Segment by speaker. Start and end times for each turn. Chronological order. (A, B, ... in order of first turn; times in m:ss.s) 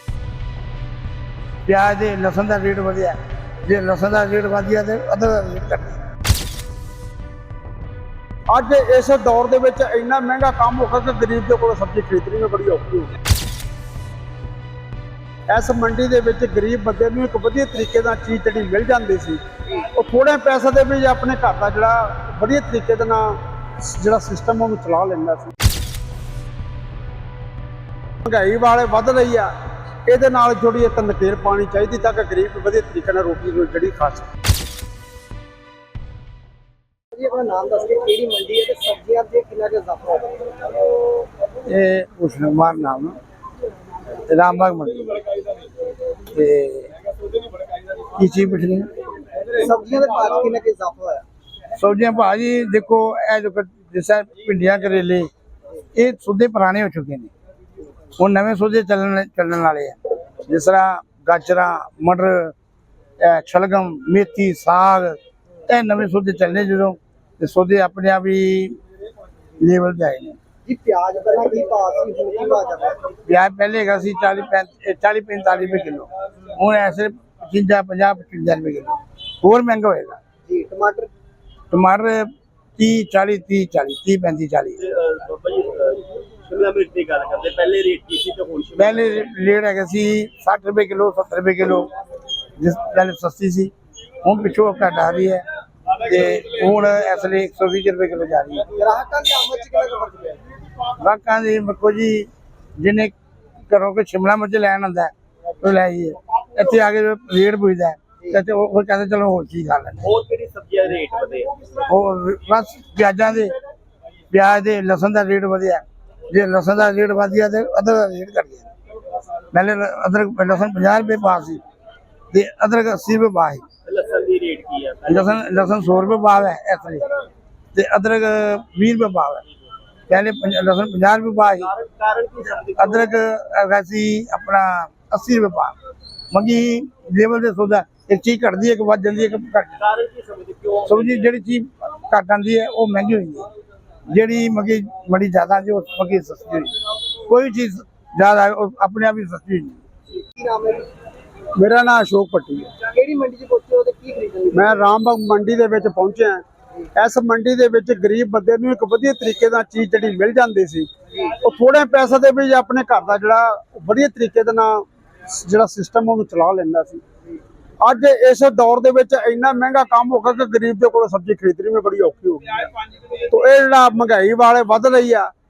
0:01.6-0:06.0 A
0:08.5-0:13.1 B
0:15.5-0:25.5 B
0:28.2-0:29.5 B
0:30.1-0:34.3 B
0:37.1-0:40.7 C
0:41.6-0:43.2 A
0:44.2-0:45.2 A
0:46.3-0:46.9 A
0:48.1-0:48.9 A
0:49.5-0:51.2 C
0:51.8-0:55.3 A
0:55.9-0:57.3 A
0:58.2-1:02.5 A
1:03.2-1:08.8 A
1:09.6-1:10.4 A
1:10.6-1:13.0 C
1:13.2-1:20.2 A
1:20.5-1:21.1 C
1:21.7-1:24.8 A
1:24.8-1:29.1 D
1:28.8-1:31.9 A
1:32.6-1:35.4 A
1:36.0-1:38.7 A
1:38.8-1:40.4 C
1:41.0-1:43.2 A
1:43.7-1:50.1 A
1:50.0-1:51.5 D
1:51.8-1:53.5 A
1:54.3-1:58.7 A
1:59.5-2:01.6 A
2:02.3-2:03.6 A
2:03.8-2:05.6 D
2:05.1-2:07.1 A
2:07.7-2:09.4 A
2:10.1-2:11.7 A
2:11.6-2:13.1 D
2:12.8-2:15.7 A
2:16.3-2:19.8 A
2:19.8-2:21.3 D
2:20.8-2:23.5 A
2:24.1-2:29.8 A
2:30.1-2:30.9 C
2:31.5-2:32.8 B
2:32.8-2:34.8 C
2:34.5-2:36.4 B
2:36.9-2:47.0 B
2:47.8-2:55.3 B